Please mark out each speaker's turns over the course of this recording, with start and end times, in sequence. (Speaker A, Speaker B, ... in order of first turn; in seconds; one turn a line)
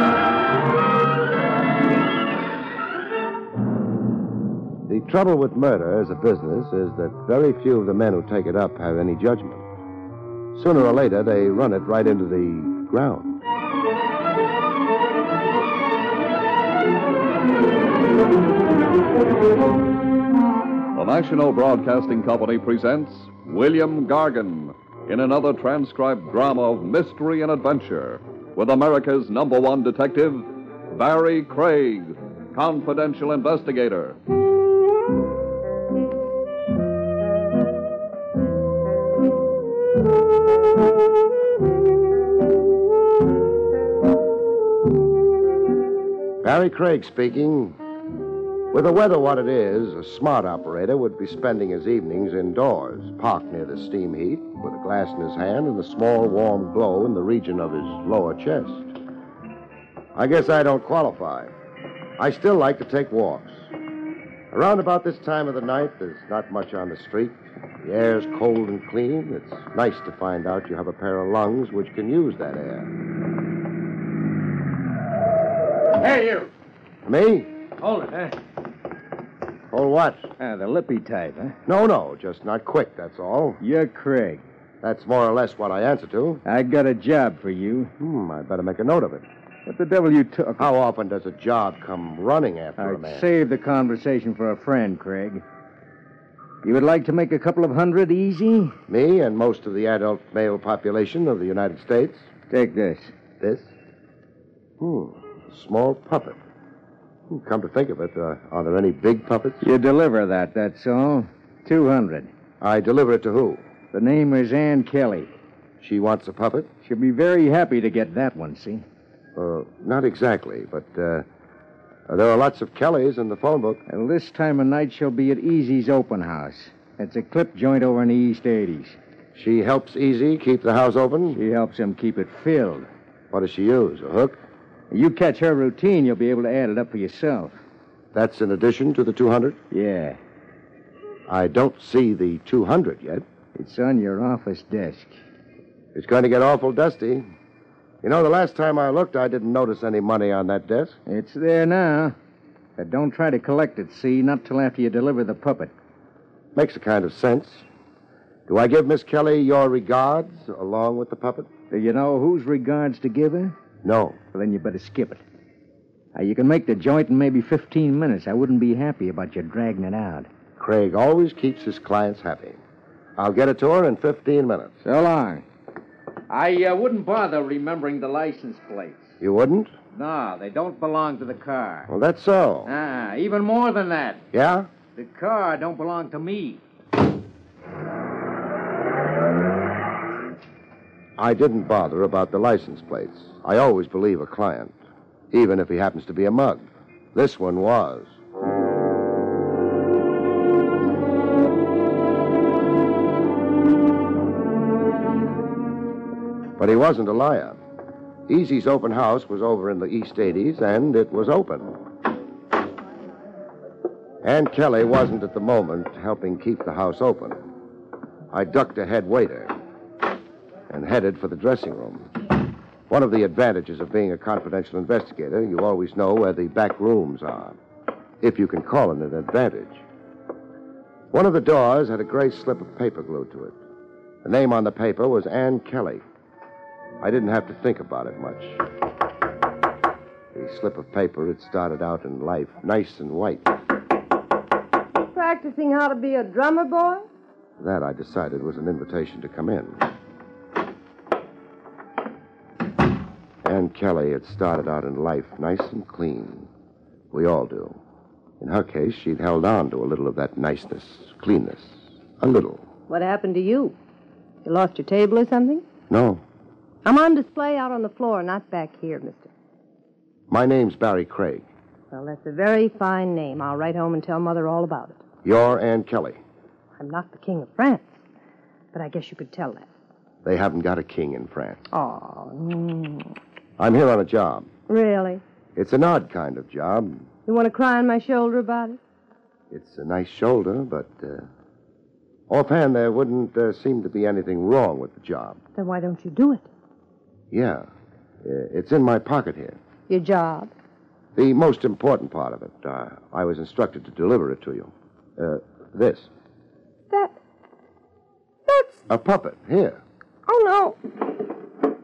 Speaker A: 4.8-9.7
Speaker A: 10.5-13.3
Speaker B: 20.9-34.2
Speaker A: 46.4-47.8
Speaker A: 48.7-59.0
Speaker A: 60.1-61.5
Speaker A: 62.2-63.7
Speaker A: 64.5-72.9
Speaker C: 76.0-76.5
Speaker A: 77.0-77.5
Speaker C: 77.8-78.3
Speaker A: 79.7-80.3
Speaker C: 80.4-81.6
Speaker A: 81.7-83.6
Speaker C: 83.6-84.4
Speaker A: 84.8-86.4
Speaker C: 86.4-87.9
Speaker A: 88.0-89.2
Speaker C: 89.7-90.7
Speaker A: 90.6-93.2
Speaker C: 92.8-95.4
Speaker C: 96.6-98.8
Speaker A: 98.9-102.3
Speaker C: 102.5-103.1
Speaker A: 103.4-103.7
Speaker A: 104.8-106.4
Speaker A: 107.3-109.6
Speaker C: 109.6-112.3
Speaker A: 112.6-113.6
Speaker C: 113.9-115.3
Speaker A: 115.8-116.7
Speaker C: 116.8-118.8
Speaker A: 119.3-121.2
Speaker A: 122.1-123.8
Speaker C: 123.9-129.0
Speaker A: 129.3-131.4
Speaker C: 131.3-132.9
Speaker A: 133.3-134.4
Speaker C: 134.9-137.6
Speaker A: 138.1-139.6
Speaker C: 139.7-140.2
Speaker A: 141.3-143.2
Speaker C: 143.6-145.2
Speaker A: 145.9-147.2
Speaker A: 148.0-151.0
Speaker C: 151.1-152.2
Speaker C: 152.8-155.7
Speaker A: 156.5-157.7
Speaker A: 158.5-161.5
Speaker C: 161.7-163.5
Speaker A: 163.8-164.2
Speaker C: 164.3-165.2
Speaker C: 166.1-170.3
Speaker A: 170.6-172.6
Speaker A: 173.2-174.7
Speaker C: 174.8-175.4
Speaker C: 176.3-179.1
Speaker A: 179.2-179.7
Speaker C: 179.9-181.9
Speaker A: 181.9-182.7
Speaker C: 182.7-184.2
Speaker A: 184.3-184.7
Speaker C: 184.9-186.6
Speaker A: 191.2-194.8
Speaker A: 195.3-198.1
Speaker A: 206.6-207.6
Speaker A: 208.3-211.8
Speaker A: 214.2-217.4
Speaker A: 218.3-219.6
Speaker A: 220.7-222.1
Speaker A: 222.9-227.6
Speaker A: 228.2-229.8
Speaker A: 231.1-233.6
Speaker A: 234.2-236.0
Speaker A: 237.0-238.6
Speaker A: 240.3-243.5
Speaker D: 245.1-247.0
Speaker A: 247.6-249.8
Speaker A: 253.4-256.5
Speaker A: 257.1-257.8
Speaker A: 258.4-262.6
Speaker D: 262.9-263.7
Speaker D: 264.4-265.6
Speaker A: 265.9-266.2
Speaker D: 266.8-269.3
Speaker A: 270.3-271.4
Speaker D: 271.9-275.0
Speaker A: 275.2-276.2
Speaker D: 276.8-277.9
Speaker D: 278.7-279.7
Speaker A: 280.2-281.6
Speaker D: 281.7-283.1
Speaker A: 283.6-284.5
Speaker D: 284.7-285.2
Speaker A: 285.6-287.1
Speaker D: 287.2-288.8
Speaker A: 289.5-291.3
Speaker A: 292.3-295.4
Speaker D: 295.5-296.5
Speaker A: 297.3-297.7
Speaker A: 298.2-299.6
Speaker D: 299.9-300.5
Speaker A: 301.1-306.1
Speaker D: 306.9-307.2
Speaker D: 308.5-308.8
Speaker A: 308.9-309.8
Speaker D: 310.2-310.9